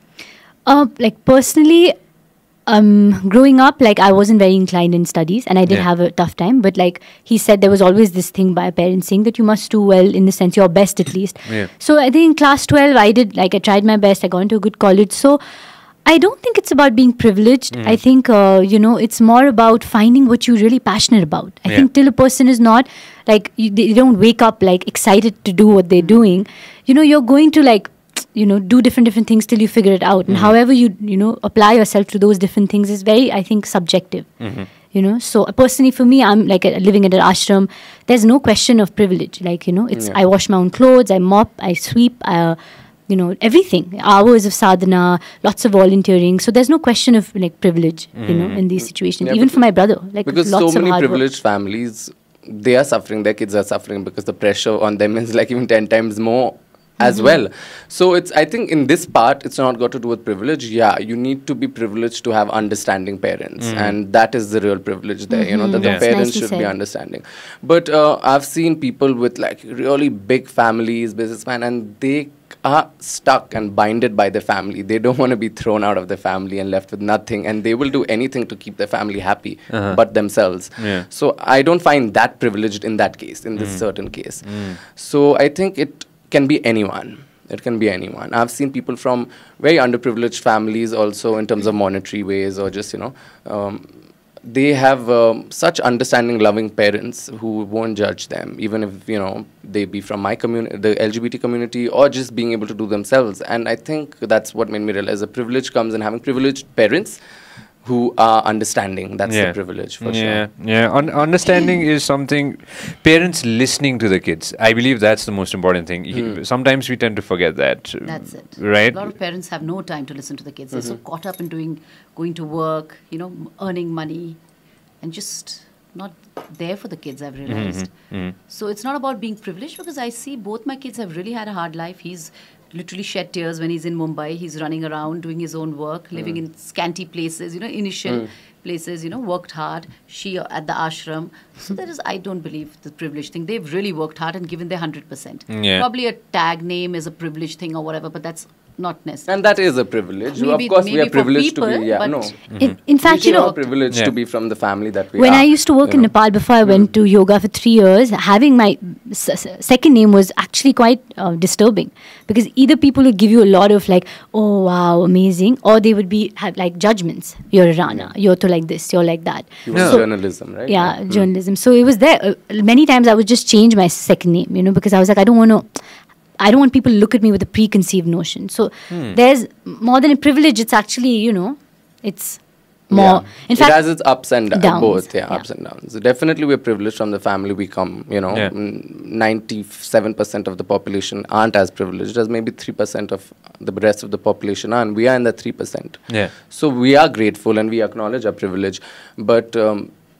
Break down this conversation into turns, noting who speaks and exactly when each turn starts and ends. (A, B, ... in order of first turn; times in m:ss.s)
0:00.6-0:01.9 A
0:02.6-0:15.4 A
0:16.0-0:34.3 A
0:17.7-0:18.0 B
0:30.3-0:30.5 B
0:34.4-0:34.7 B
0:34.9-0:42.6 A
0:39.9-0:40.2 C
0:43.1-0:51.2 A
0:48.1-0:48.6 B
0:49.2-0:49.6 C
0:50.2-1:33.9 C
0:57.0-0:57.4 A
1:03.6-1:04.0 B
1:05.3-1:06.7 A
1:05.8-1:06.0 B
1:19.7-1:20.0 B
1:20.8-1:21.0 B
1:23.6-1:23.8 B
1:24.4-1:24.7 B
1:34.4-1:47.2 C
1:47.8-1:50.5 C
1:49.2-1:59.1 B
1:56.1-1:56.4 C
1:58.0-2:04.4 D
2:00.7-2:01.0 C
2:05.0-2:29.4 D
2:07.4-2:08.3 B
2:25.5-2:25.8 B
2:29.3-2:36.9 C
2:30.3-2:32.4 D
2:32.5-2:32.8 B
2:32.6-2:33.5 A
2:33.0-2:33.6 D
2:35.1-2:55.8 A
2:49.6-2:51.3 C
2:49.7-2:50.0 B
2:56.4-3:05.4 A
2:58.9-2:59.2 B
3:02.9-3:19.9 C